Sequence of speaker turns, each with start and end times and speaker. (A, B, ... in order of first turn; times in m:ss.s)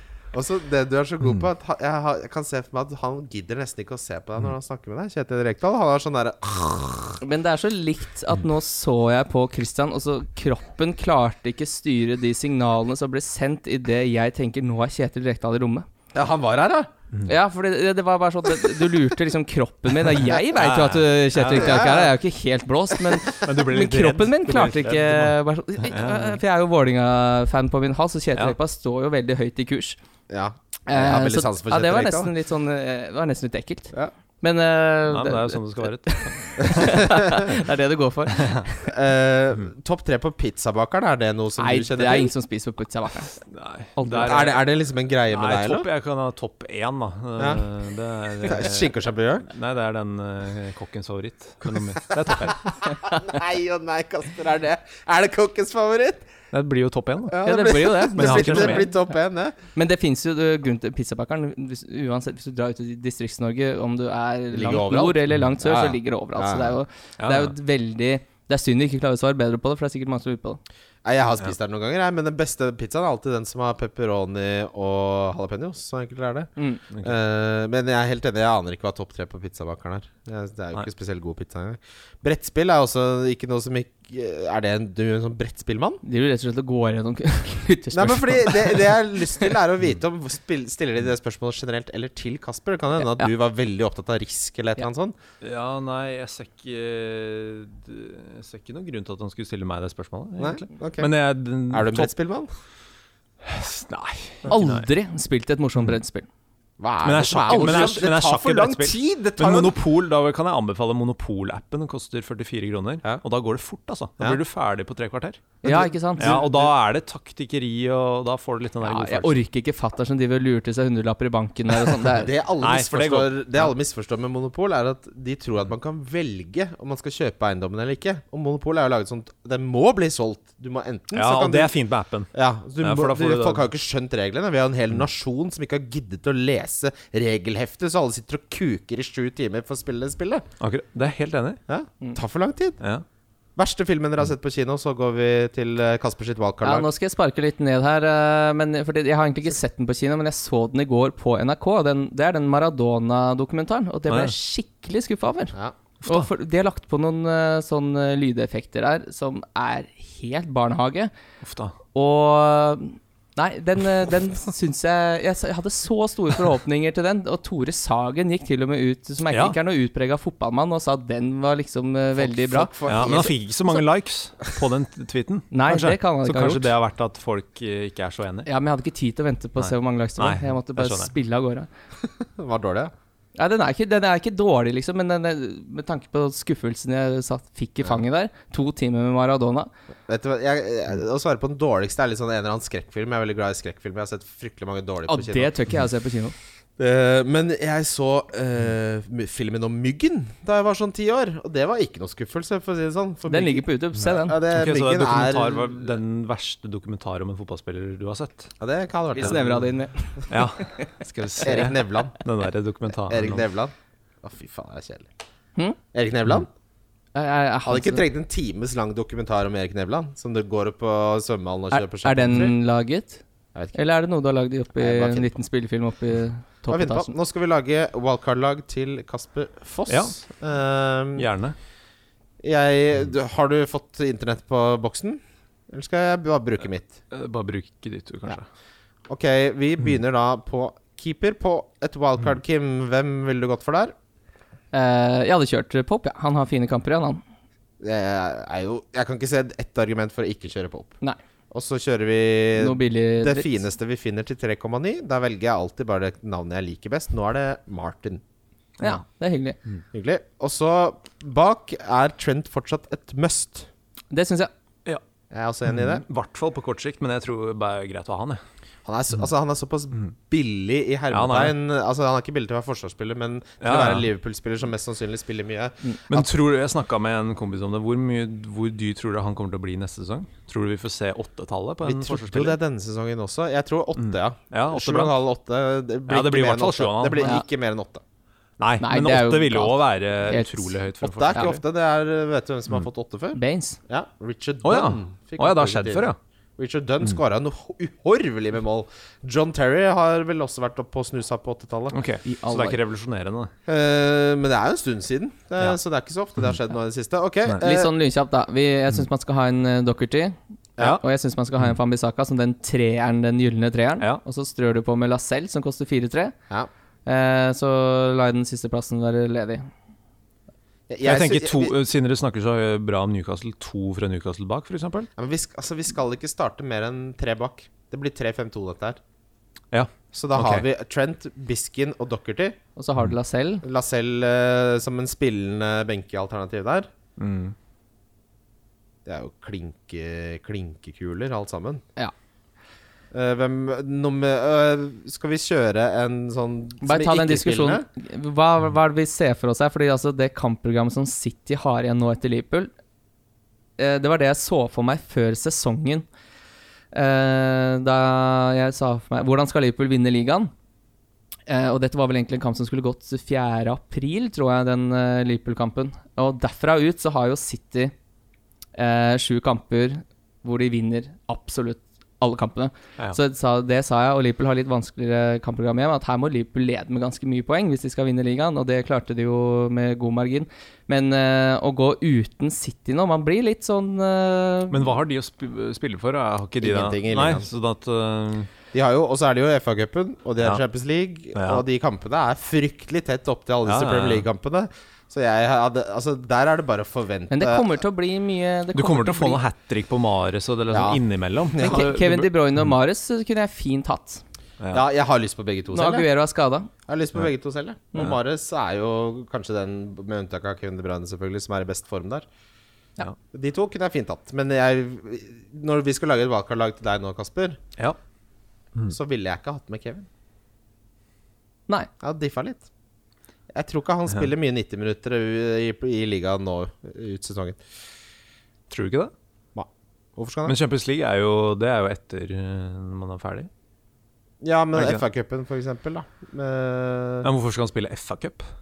0:00.3-0:07.2 A
0:07.2-0:15.9 B
0:16.1-0:16.9 A
0:17.2-0:30.0 B
0:20.3-0:22.0 C
0:21.6-0:22.1 A
0:23.3-0:26.4 C
0:30.3-0:32.3 A
0:30.9-0:38.9 B
0:35.1-0:37.2 C
0:37.0-0:37.4 A
0:38.3-0:38.6 C
0:38.8-0:42.3 A
0:41.6-0:43.4 B
0:43.5-0:44.5 C
0:44.0-0:44.5 B
0:44.1-0:45.9 A
0:45.3-0:52.7 C
0:48.4-0:49.5 A
0:51.7-0:56.3 A
0:56.5-0:57.4 C
0:57.3-0:59.6 A
0:57.4-0:58.9 B
0:58.2-0:58.9 C
0:59.8-1:10.6 B
1:04.5-1:06.8 A
1:07.2-1:07.5 C
1:11.0-1:26.0 A
1:16.9-1:17.2 C
1:26.0-1:29.5 B
1:27.9-1:35.2 A
1:33.0-1:33.3 B
1:35.4-1:42.1 C
1:40.4-1:41.1 A
1:41.7-1:42.5 A
1:43.4-1:44.9 C
1:44.5-1:46.3 B
1:46.8-1:49.8 A
1:47.0-1:55.4 C
1:55.6-1:56.4 B
1:55.6-1:56.7 A
1:56.2-1:59.4 C
1:58.8-2:02.3 B
2:02.2-2:11.8 A
2:02.6-2:03.7 C
2:11.1-2:12.3 C
2:12.3-2:20.4 A
2:12.8-2:13.6 C
2:20.6-2:21.6 C
2:21.7-2:22.8 A
2:23.6-2:26.9 A
2:26.6-2:41.1 B
2:34.1-2:34.3 C
2:36.0-2:36.3 C
2:41.4-2:41.8 C
2:42.0-2:52.7 B
2:49.3-2:49.6 C
2:52.2-2:53.4 A
2:52.9-2:58.5 C
2:55.5-2:56.7 B
2:58.5-3:01.7 B
2:59.6-3:01.1 C
3:02.2-3:02.9 A
3:03.4-3:09.7 B
3:10.1-3:15.5 A
3:15.1-3:16.4 B
3:16.8-3:25.9 A
3:23.3-3:24.4 B
3:24.5-3:28.5 C
3:28.6-3:29.5 A
3:29.1-3:30.9 B
3:30.3-3:33.5 C
3:31.4-3:32.2 A
3:33.1-3:35.1 A
3:35.9-3:36.5 A
3:37.2-3:38.0 B
3:37.7-3:42.6 A
3:41.7-3:43.2 B
3:43.7-3:47.1 B
3:44.8-3:45.4 A
3:46.7-3:51.3 A
3:49.9-3:50.2 C
3:51.2-3:51.6 C
3:52.4-3:57.0 A
3:57.1-3:58.5 C
3:59.1-4:03.9 A
4:04.7-4:07.2 B
4:07.8-4:11.0 A
4:11.5-4:18.2 A
4:12.6-4:13.6 B
4:18.8-4:19.6 B
4:19.9-4:23.7 A
4:24.1-4:24.5 B
4:25.3-4:26.0 A
4:25.7-4:28.4 C
4:28.8-4:36.3 A
4:31.1-4:31.5 C
4:33.6-4:34.1 C
4:36.1-4:42.6 C
4:41.8-4:48.0 A
4:44.0-4:45.2 C
4:46.1-4:47.4 C
4:48.6-4:51.5 C
4:48.8-4:50.7 B
4:51.0-5:02.0 A
4:51.3-4:51.6 B
4:53.3-4:53.8 B
4:54.6-4:56.2 C
5:01.9-5:03.5 C
5:02.2-5:02.8 B
5:03.7-5:07.9 A
5:07.6-5:16.3 B
5:17.0-5:19.7 B
5:20.9-5:21.8 A
5:21.0-5:25.1 C
5:25.2-5:29.0 A
5:29.7-5:30.7 C
5:30.1-5:32.6 A
5:32.8-5:33.6 B
5:33.6-5:36.9 A
5:37.2-5:37.6 C
5:39.0-5:41.8 A
5:43.1-5:47.9 A
5:46.8-5:52.7 B
5:53.8-5:56.1 B
5:56.9-6:00.5 B
6:01.5-6:07.9 B
6:08.8-6:24.9 B
6:24.7-6:28.5 C
6:26.6-6:27.5 A
6:28.7-6:37.8 A
6:31.4-6:31.6 C
6:33.6-6:34.3 C
6:37.3-6:39.4 B
6:38.8-6:42.3 C
6:40.7-6:41.9 A
6:41.6-6:44.2 B
6:44.7-6:46.1 A
6:45.7-6:46.7 B
6:46.9-6:52.3 A
6:53.3-6:57.6 A
6:58.9-7:00.1 A
7:02.0-7:02.7 A
7:03.5-7:07.6 A
7:08.7-7:09.1 C
7:09.6-7:10.6 A
7:10.5-7:13.5 C
7:14.4-7:17.3 A
7:14.8-7:15.0 C
7:17.2-7:18.5 C